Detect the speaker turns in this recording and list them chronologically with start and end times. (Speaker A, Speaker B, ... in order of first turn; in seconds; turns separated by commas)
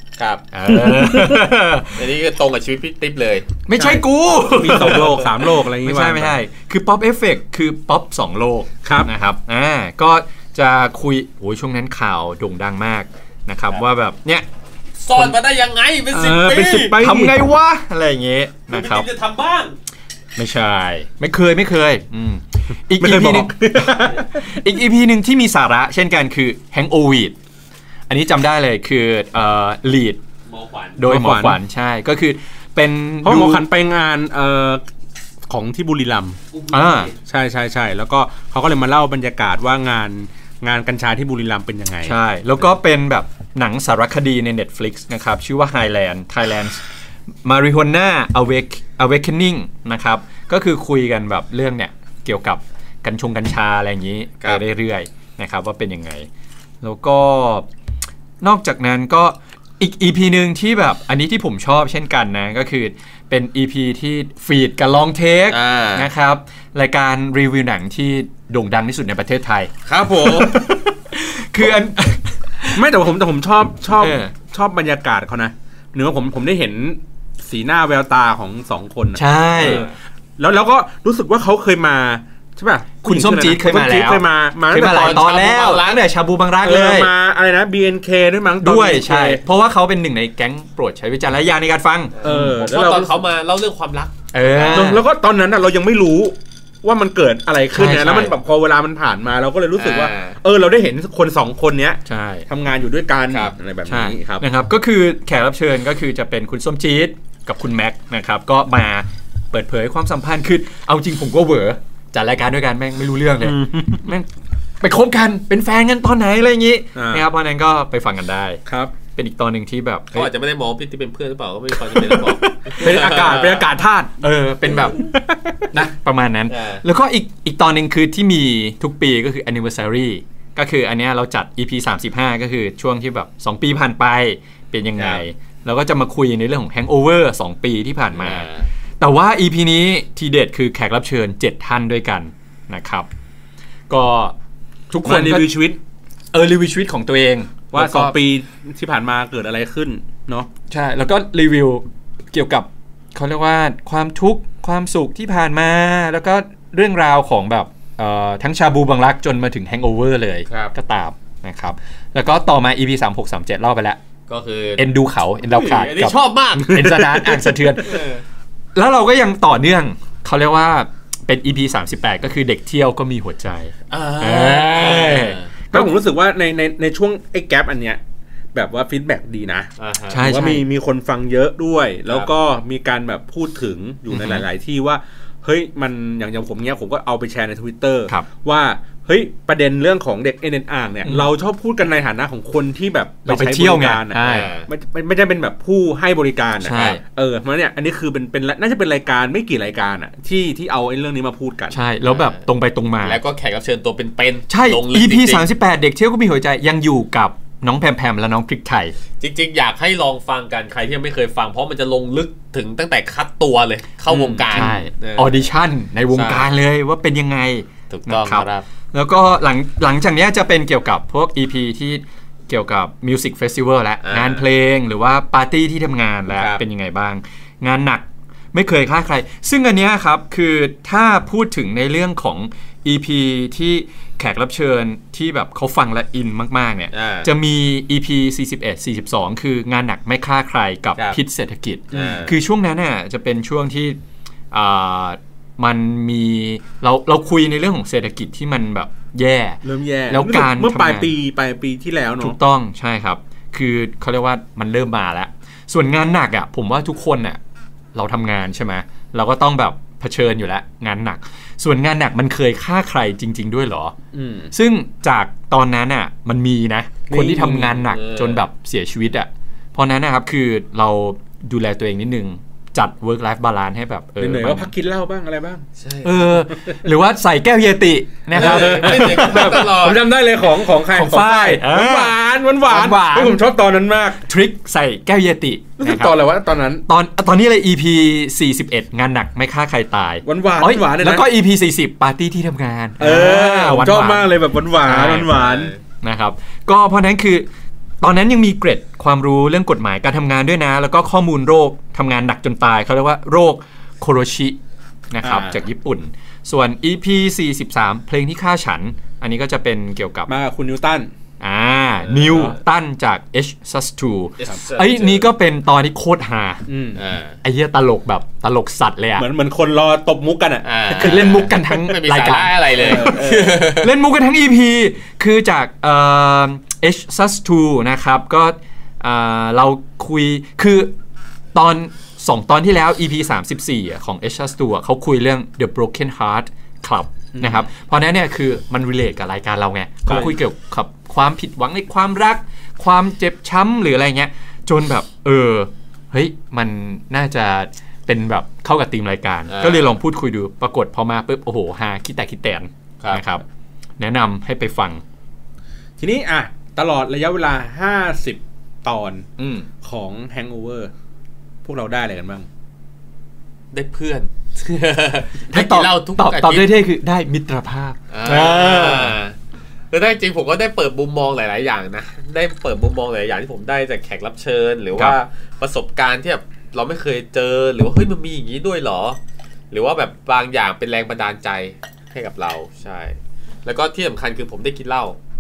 Speaker A: 0.2-0.5, Speaker B: 0.5-2.0, Speaker C: 0.9-1.1, Speaker A: 1.9-3.5, Speaker B: 3.7-14.4, Speaker C: 3.8-6.4, Speaker C: 8.8-9.1, Speaker A: 15.0-17.0, Speaker C: 16.1-17.4, Speaker B: 16.9-19.1, Speaker A: 18.7-19.8, Speaker B: 20.4-27.3, Speaker C: 22.9-24.4, Speaker B: 28.1-30.2, Speaker A: 30.5-31.0, Speaker B: 31.0-33.6, Speaker C: 31.0-31.6, Speaker C: 33.2-34.8, Speaker C: 35.5-36.4, Speaker A: 36.5-37.1, Speaker B: 36.7-37.1, Speaker C: 37.2-42.1, Speaker B: 42.0-46.8, Speaker B: 47.4-56.3, Speaker B: 56.8-57.7, Speaker B: 58.4-72.8, Speaker A: 65.5-66.1, Speaker A: 69.8-70.6, Speaker C: 72.7-85.2, Speaker B: 74.0-74.3, Speaker B: 79.1-79.9, Speaker A: 79.6-79.9, Speaker B: 83.0-87.1, Speaker A: 84.8-86.0, Speaker C: 86.6-89.4, Speaker B: 88.6-92.6, Speaker A: 92.2-94.9, Speaker C: 92.2-93.2, Speaker B: 94.3-95.0, Speaker C: 94.7-104.4, Speaker B: 97.7-98.3, Speaker A: 99.8-100.4, Speaker B: 102.0-102.5, Speaker B: 103.9-114.3, Speaker C: 113.4-114.0, Speaker B: 114.8-118.6, Speaker C: 116.9-117.2, Speaker C: 118.7-118.9, Speaker B: 119.1-120.3, Speaker A: 120.1-123.7, Speaker B: 122.0-123.0, Speaker C: 122.7-124.2, Speaker B: 124.2-125.0, Speaker C: 124.8-125.7, Speaker B: 125.7-138.5, Speaker A: 126.5-126.8, Speaker A: 135.0-135.2, Speaker A: 138.1-138.7, Speaker B: 139.0-143.1, Speaker B: 143.9-144.3, Speaker B: 144.9-145.6, Speaker C: 145.0-145.8, Speaker B: 146.3-148.2, Speaker C: 147.7-150.5, Speaker B: 150.7-164.0, Speaker A: 160.5-160.7, Speaker A: 164.3-164.9, Speaker B: 164.8-168.0, Speaker A: 165.4-166.8, Speaker C: 166.7-167.5, Speaker A: 167.8-168.2, Speaker B: 168.7-175.9, Speaker A: 173.9-175.5, Speaker C: 175.7-178.0, Speaker C: 178.5-201.8, Speaker A: 179.8-180.2, Speaker B: 180.1-180.6, Speaker B: 184.1-184.4, Speaker B: 193.2-194.5, Speaker A: 194.2-194.7, Speaker B: 196.6-197.0, Speaker B: 201.7-203.2, Speaker A: 202.1-202.4, Speaker A: 203.0-205.4, Speaker B: 204.5-208.9, Speaker A: 209.2-215.5, Speaker B: 214.1-244.0, Speaker A: 216.1-216.5, Speaker A: 217.9-218.7, Speaker A: 224.0-224.4, Speaker A: 226.3-226.6, Speaker A: 236.9-237.3, Speaker C: 241.9-242.3, Speaker A: 241.9-242.3, Speaker B: 244.5-251.1, Speaker C: 249.6-252.4, Speaker B: 252.2-257.4, Speaker B: 257.9-263.9, Speaker C: 264.1-264.5, Speaker B: 264.5-274.7, Speaker C: 267.1-267.8, Speaker A: 267.9-268.4, Speaker C: 274.2-275.6, Speaker A: 275.8-276.4, Speaker B: 276.0-279.7, Speaker C: 278.3-284.2, Speaker A: 278.3-280.1, Speaker B: 280.9-283.4, Speaker B: 284.2-286.2, Speaker C: 285.8-286.8, Speaker B: 286.9-294.3, Speaker C: 290.2-291.2, Speaker C: 293.0-295.7, Speaker B: 294.8-295.4, Speaker A: 295.2-295.8, Speaker B: 296.0-297.5, Speaker B: 298.0-304.6, Speaker B: 305.1-310.3, Speaker C: 305.2-305.6, Speaker C: 310.3-311.1, Speaker B: 311.4-316.6, Speaker A: 312.1-312.5, Speaker A: 314.4-315.3, Speaker C: 316.7-317.0, Speaker A: 316.9-317.4, Speaker B: 317.4-319.2, Speaker C: 319.2-321.4, Speaker A: 320.6-323.9, Speaker B: 320.9-330.9, Speaker C: 322.8-323.6, Speaker B: 331.5-353.4, Speaker C: 337.3-337.7, Speaker C: 340.1-340.3, Speaker A: 349.5-349.9, Speaker B: 354.0-355.0, Speaker C: 356.0-359.3, Speaker B: 359.4-359.7, Speaker C: 359.8-360.9, Speaker C: 361.6-362.4, Speaker A: 363.7-366.7, Speaker B: 365.5-369.2, Speaker A: 368.1-369.3, Speaker A: 369.9-379.2, Speaker A: 379.7-385.2